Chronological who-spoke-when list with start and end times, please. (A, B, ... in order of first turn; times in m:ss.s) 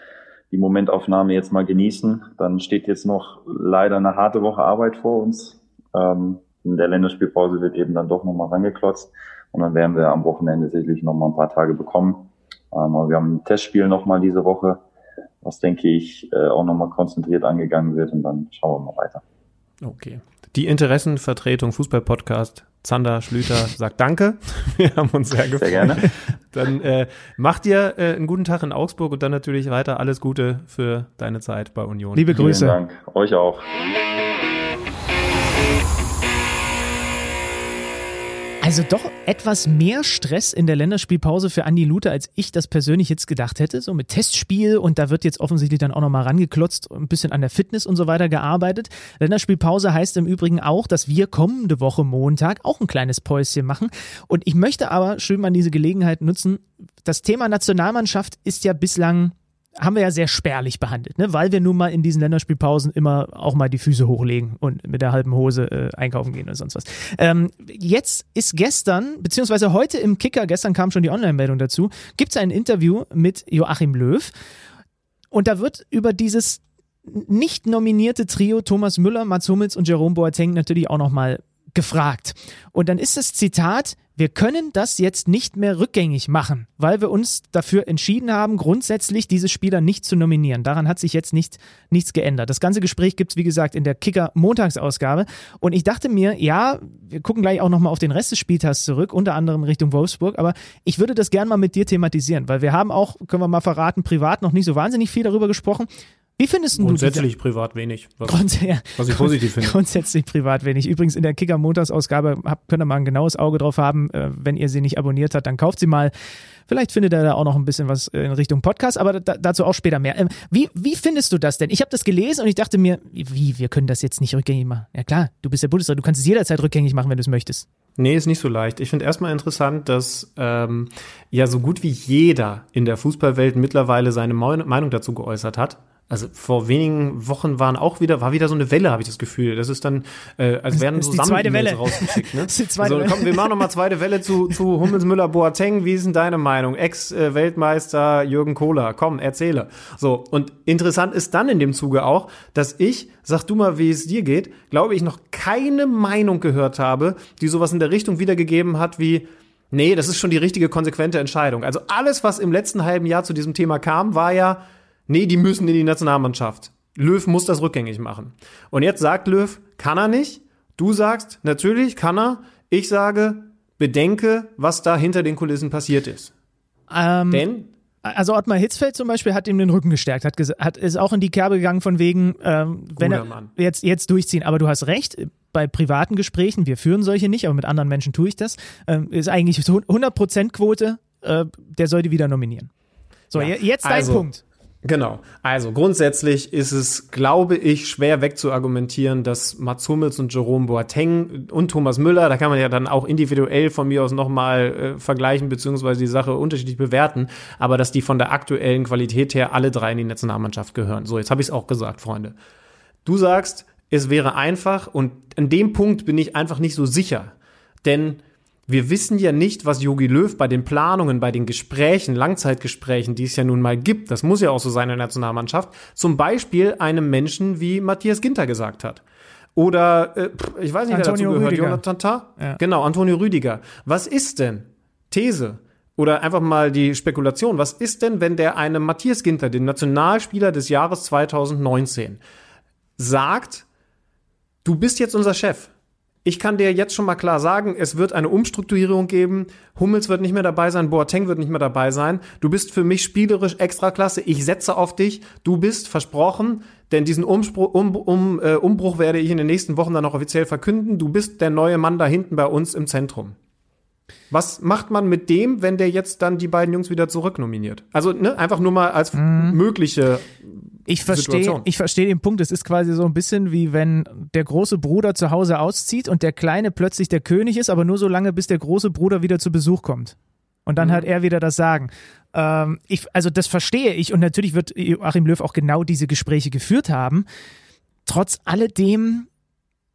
0:00.5-0:14.8 A
0:15.4-0:19.2 A
0:19.8-0:32.3 B
0:25.6-0:26.0 A
0:32.2-0:32.8 C
0:32.3-0:33.6 A
0:38.6-1:14.3 C
1:15.3-1:47.3 C
1:46.8-1:49.8 B
1:48.3-1:56.1 C
1:56.7-2:07.7 C
2:08.0-2:56.3 B
2:20.8-2:23.7 C
2:56.9-2:57.5 C
2:57.3-2:57.7 B
2:58.0-3:12.7 C
3:03.0-3:03.5 B
3:13.3-3:14.4 C
3:13.3-3:14.2 B
3:14.8-3:32.4 B
3:33.0-3:49.0 B
3:49.6-4:02.2 B
3:50.9-3:51.8 C
4:03.0-4:03.6 B
4:04.6-4:05.7 B
4:06.2-4:23.4 B
4:24.3-4:31.7 B
4:29.2-4:29.6 C
4:30.9-4:40.2 C
4:40.7-4:47.2 C
4:40.8-4:41.1 B
4:48.1-4:49.3 C